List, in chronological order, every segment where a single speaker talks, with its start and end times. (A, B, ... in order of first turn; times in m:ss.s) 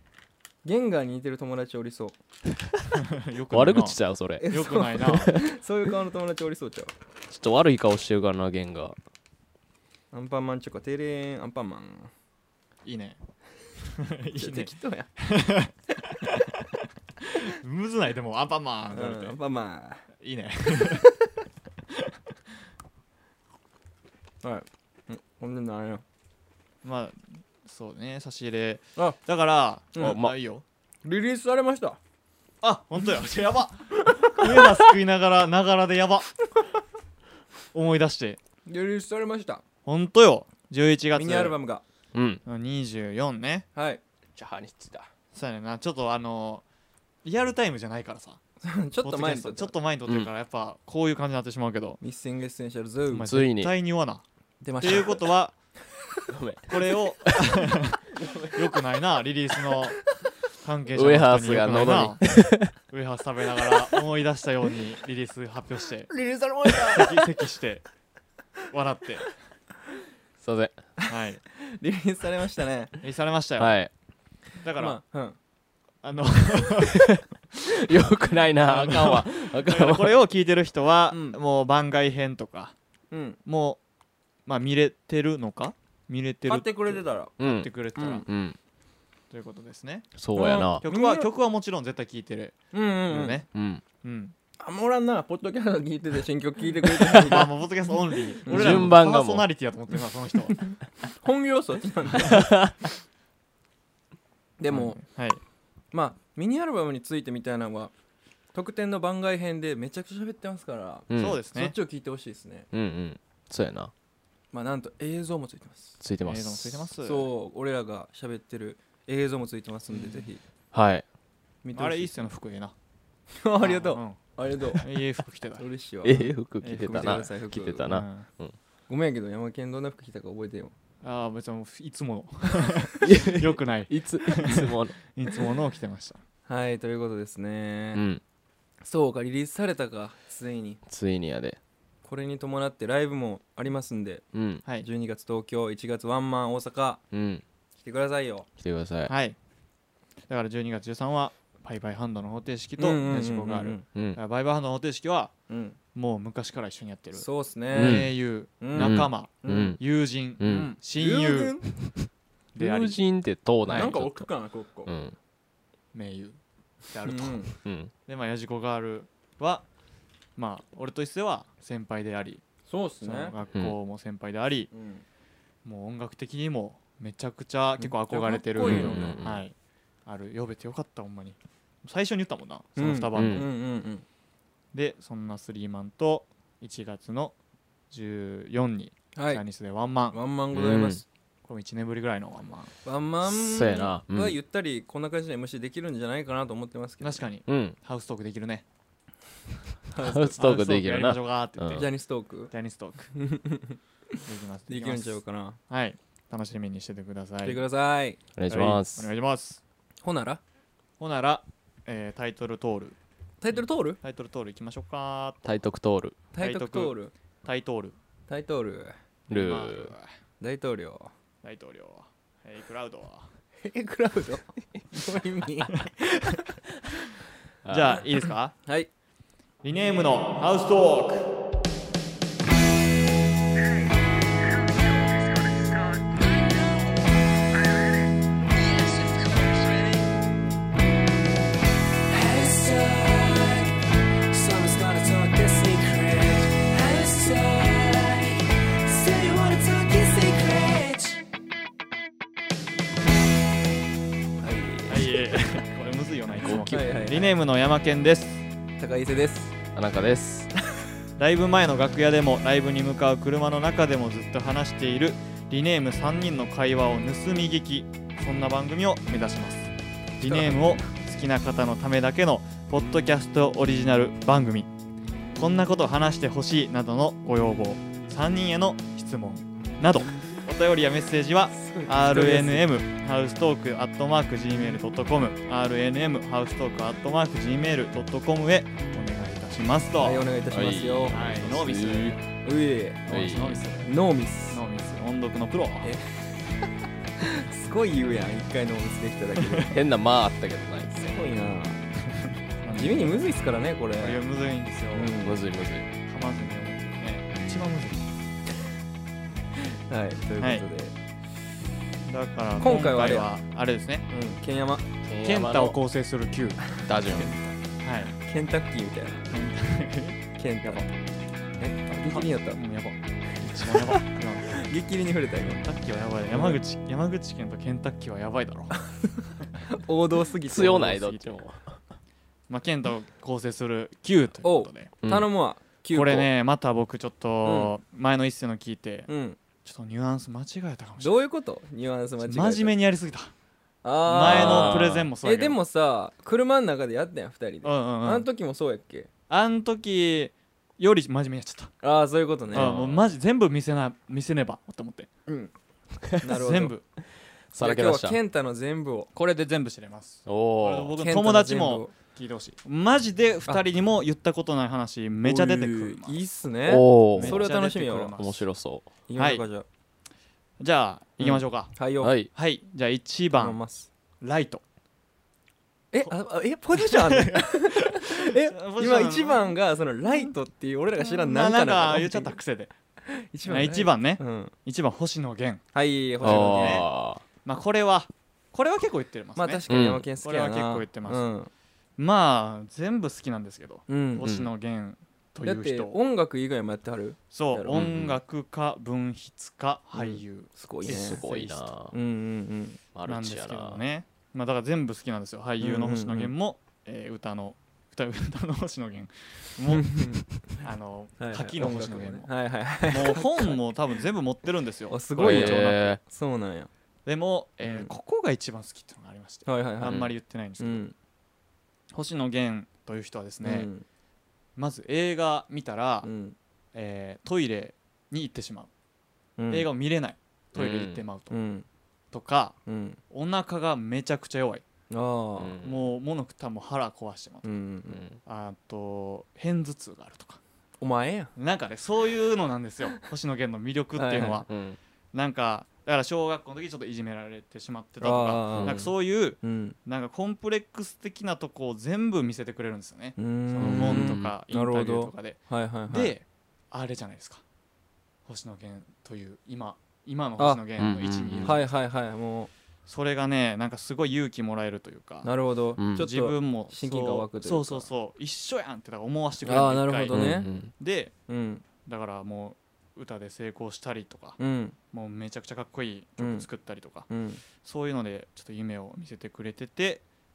0:00.6-0:02.2 A
0:02.9-0:05.3 B
0:03.5-0:04.5 C
0:04.4-0:06.9 A
0:05.0-0:05.4 C
0:07.3-0:09.0 C
0:10.1-0:12.1 A
0:12.8-0:13.2 B
0:13.9-0:16.6 B
0:14.3-0:15.1 A
0:17.2-0:19.4 B
0:18.9-0:20.1 A
0:20.2-0:21.1 B
0:20.7-0:21.3 A
0:24.4-0:26.0 A
0:26.8-0:30.6 B
0:30.0-0:30.4 C
0:31.0-0:32.0 A
0:32.6-0:36.4 B
0:34.0-0:34.9 A
0:37.7-0:38.4 B
0:38.6-0:39.6 A
0:39.8-0:41.6 B
0:41.1-0:41.8 A
0:42.1-0:42.4 C
0:42.4-0:43.6 B
0:43.7-0:44.0 A
0:44.3-0:45.1 C
0:45.3-0:46.6 B
0:47.2-0:48.4 B
0:48.6-0:49.8 A
0:49.0-0:52.0 B
0:52.0-0:53.3 A
0:53.1-0:54.2 B
0:53.3-0:53.7 C
0:54.6-0:55.2 A
0:54.8-0:55.5 B
0:56.3-0:57.7 C
0:56.7-1:06.1 B
0:58.2-0:58.5 C
1:00.9-1:02.7 C
1:06.1-1:07.2 A
1:06.9-1:07.8 B
1:08.6-1:09.3 B
1:10.4-1:10.8 C
1:11.0-1:12.9 A
1:11.1-1:11.4 B
1:13.0-1:13.8 B
1:13.6-1:13.9 C
1:14.6-1:15.0 B
1:14.8-1:15.4 A
1:16.0-1:17.0 B
1:16.9-1:20.2 C
1:18.6-1:22.7 B
1:21.1-1:21.4 A
1:23.1-1:23.4 A
1:23.4-1:23.8 B
1:24.4-1:28.2 B
1:26.4-1:27.3 A
1:27.4-1:27.7 C
1:28.0-1:28.2 A
1:28.2-1:28.6 C
1:29.3-1:30.1 B
1:30.2-1:30.8 C
1:30.3-1:31.3 A
1:30.8-1:33.5 B
1:32.7-1:33.4 A
1:33.5-1:33.8 C
1:34.0-1:34.3 B
1:34.6-1:37.5 A
1:37.1-1:37.4 C
1:37.2-1:40.7 B
1:38.4-1:38.9 A
1:38.5-1:39.5 C
1:41.1-1:42.5 A
1:42.2-1:42.7 C
1:44.6-1:45.0 A
1:44.7-1:45.4 B
1:45.9-1:47.9 A
1:48.5-1:52.7 A
1:51.1-1:51.4 C
1:51.1-1:51.7 B
1:52.7-1:53.9 C
1:54.5-1:56.0 A
1:56.0-1:56.8 C
1:56.2-1:57.3 B
1:57.0-2:00.4 A
2:00.7-2:01.0 C
2:01.6-2:02.3 A
2:01.7-2:02.7 B
2:03.3-2:04.9 A
2:03.6-2:04.2 B
2:04.7-2:05.6 B
2:05.6-2:07.9 A
2:06.0-2:08.6 C
2:06.6-2:08.3 B
2:08.9-2:10.7 A
2:11.0-2:16.2 B
2:13.0-2:15.0 C
2:16.5-2:18.0 A
2:17.9-2:18.2 C
2:18.8-2:20.8 A
2:20.9-2:21.6 C
2:22.0-2:24.2 A
2:24.3-2:24.6 C
2:24.8-2:27.0 A
2:27.1-2:27.4 C
2:27.8-2:28.5 A
2:28.6-2:29.1 C
2:29.1-2:29.4 B
2:30.3-2:35.3 B
2:32.8-2:33.8 A
2:33.9-2:34.2 C
2:35.5-2:35.8 A
2:35.9-2:41.6 B
2:37.1-2:38.1 A
2:37.7-2:38.2 C
2:38.6-2:39.8 A
2:38.7-2:39.8 C
2:40.4-2:40.7 C
2:41.0-2:41.7 A
2:42.6-2:43.0 B
2:42.6-2:44.3 C
2:43.7-2:43.9 B
2:43.7-2:44.9 A
2:44.8-2:45.2 C
2:45.9-2:46.4 B
2:46.9-2:47.4 B
2:47.0-2:47.5 A
2:47.6-2:47.9 C
2:48.1-2:49.6 B
2:50.4-2:52.4 B
2:52.7-2:53.3 A
2:53.0-2:54.7 B
2:54.7-2:55.0 A
2:55.6-2:59.5 B
2:57.8-2:59.2 A
2:58.6-2:59.5 C
3:00.0-3:03.5 B
3:02.8-3:04.0 A
3:03.1-3:03.5 C
3:04.7-3:07.3 B
3:07.9-3:10.2 B
3:09.1-3:09.4 A
3:10.1-3:11.0 A
3:10.5-3:11.0 C
3:11.5-3:12.7 B
3:12.8-3:17.3 A
3:13.2-3:14.3 C
3:17.0-3:18.6 B
3:17.5-3:17.8 C
3:19.9-3:20.4 A
3:20.0-3:21.8 C
3:20.4-3:21.9 B
3:21.7-3:22.5 A
3:22.5-3:23.1 B
3:23.1-3:25.6 A
3:24.2-3:27.6 B
3:27.4-3:28.2 A
3:28.4-3:29.1 C
3:28.5-3:29.6 B
3:30.0-3:30.4 A
3:31.0-3:33.0 B
3:33.4-3:34.0 A
3:34.0-3:35.5 B
3:35.4-3:36.2 C
3:36.3-3:37.1 A
3:36.4-3:38.0 B
3:38.3-3:39.0 A
3:39.3-3:40.1 B
3:39.3-3:39.9 C
3:40.4-3:41.1 A
3:41.4-3:43.3 B
3:43.6-3:46.5 A
3:47.6-3:48.1 C
3:47.7-3:48.5 B
3:48.6-3:48.9 A
3:49.6-3:51.4 B
3:54.6-3:56.9 A
3:58.7-4:00.1 A
4:02.1-4:03.7 A
4:04.3-4:11.2 A
4:14.4-4:15.4 A
4:14.9-4:18.4 B
4:16.5-4:17.3 A
4:18.8-4:19.5 A
4:19.7-4:20.5 C
4:21.2-4:34.7 B
4:30.2-4:30.8 A
4:35.4-4:50.3 B
4:41.5-4:42.7 A
4:50.0-4:51.2 A
4:50.5-4:52.2 C
4:51.1-4:52.2 B
4:52.4-4:53.0 A
4:53.0-4:53.9 B
4:53.1-4:53.6 C
4:53.8-4:54.6 A
4:54.5-4:55.9 B
4:55.8-4:56.6 A
4:57.2-4:59.7 A
4:59.7-5:01.3 C
5:01.0-5:01.8 A
5:02.6-5:03.2 B
5:02.7-5:04.2 A
5:04.0-5:05.2 B
5:04.9-5:05.4 A
5:05.2-5:05.9 C
5:06.0-5:08.0 B
5:09.6-5:10.9 A
5:10.4-5:10.6 B
5:12.1-5:14.1 B
5:12.6-5:13.3 A
5:14.1-5:14.8 A
5:15.0-5:15.8 C
5:15.2-5:16.8 B
5:16.8-5:17.5 A
5:16.8-5:17.4 C
5:17.8-5:18.1 B
5:18.1-5:19.3 A
5:19.3-5:20.9 B
5:20.3-5:20.8 A
5:21.6-5:22.6 A
5:21.9-5:24.6 B
5:23.6-5:25.6 A
5:25.6-5:28.8 B
5:26.3-5:26.6 A
5:29.0-5:31.1 A
5:30.4-5:31.8 C
5:30.6-5:31.4 B
5:32.5-5:34.9 B
5:34.4-5:36.3 A
5:35.0-5:35.3 C
5:35.9-5:39.1 B
5:37.4-5:37.7 A
5:39.1-5:39.4 A
5:39.6-5:41.2 B
5:41.0-5:42.7 A
5:42.2-5:43.3 B
5:43.8-5:49.1 A
5:44.1-5:45.6 B
5:44.2-5:45.1 C
5:47.6-5:48.3 B
5:49.3-5:51.7 B
5:51.8-5:52.7 A
5:52.5-5:53.1 C
5:52.5-5:55.1 B
5:55.3-5:55.5 A
5:56.2-5:56.7 A
5:56.2-5:56.8 B
5:57.5-5:58.2 C
5:57.6-5:59.1 A
5:59.1-6:06.2 B
6:00.2-6:00.9 C
6:01.0-6:01.9 A
6:05.2-6:08.1 A
6:06.6-6:07.4 C
6:07.2-6:08.5 B
6:08.2-6:08.9 C
6:09.1-6:09.6 A
6:09.2-6:09.4 B
6:10.6-6:11.7 B
6:11.2-6:12.1 A
6:12.0-6:12.3 C
6:12.3-6:13.6 B
6:13.4-6:13.9 A
6:14.2-6:14.6 B
6:15.9-6:22.4 A
6:16.7-6:20.3 B
6:21.0-6:22.7 B
6:23.0-6:24.5 A
6:23.4-6:25.6 B
6:25.7-6:26.9 A
6:26.2-6:26.9 B
6:26.2-6:27.2 C
6:27.4-6:29.6 B
6:29.4-6:31.5 A
6:29.7-6:30.0 C
6:30.2-6:31.2 B
6:32.0-6:36.0 B
6:33.9-6:34.3 A
6:34.2-6:34.5 C
6:35.4-6:37.8 A
6:37.3-6:41.6 B
6:37.7-6:38.2 C
6:39.9-6:42.8 A
6:40.8-6:41.9 C
6:42.9-6:43.8 C
6:43.1-6:56.0 B
6:45.6-6:46.3 A
6:49.7-6:50.6 A
6:51.2-6:53.6 A
6:54.9-6:56.7 A
6:55.2-6:56.0 C
6:57.0-7:00.8 B
6:57.6-6:57.9 A
6:59.4-7:00.0 A
6:59.8-7:00.1 C
7:00.6-7:00.9 A
7:01.9-7:03.7 B
7:03.4-7:03.8 A
7:04.6-7:06.1 B
7:06.0-7:06.4 A
7:06.7-7:08.7 B
7:09.4-7:09.7 A
7:09.5-7:11.4 B
7:10.5-7:11.1 C
7:11.3-7:11.6 A
7:12.1-7:12.6 B
7:12.6-7:13.0 A
7:13.1-7:14.6 B
7:14.9-7:15.6 A
7:15.4-7:15.9 C
7:15.6-7:17.5 B
7:17.4-7:18.0 A
7:17.9-7:18.2 C
7:18.2-7:20.4 B
7:20.8-7:21.3 A
7:21.4-7:24.5 B
7:23.9-7:24.4 A
7:24.5-7:24.8 C
7:25.1-7:37.4 B
7:28.0-7:28.9 A
7:28.5-7:28.9 C
7:29.4-7:29.8 A
7:33.2-7:36.1 A
7:33.6-7:34.3 C
7:38.2-7:41.7 B
7:40.8-7:41.6 C
7:41.4-7:42.5 A
7:42.9-7:45.3 B
7:45.2-7:47.9 A
7:45.8-7:46.0 C
7:45.9-7:51.1 B
7:49.4-7:50.5 A
7:50.1-7:50.7 C
7:51.3-7:51.6 A
7:51.8-7:54.4 B
7:54.4-7:54.8 A
7:54.9-7:57.1 B
7:56.2-7:56.5 A
7:57.1-7:57.4 A
7:57.6-8:00.0 B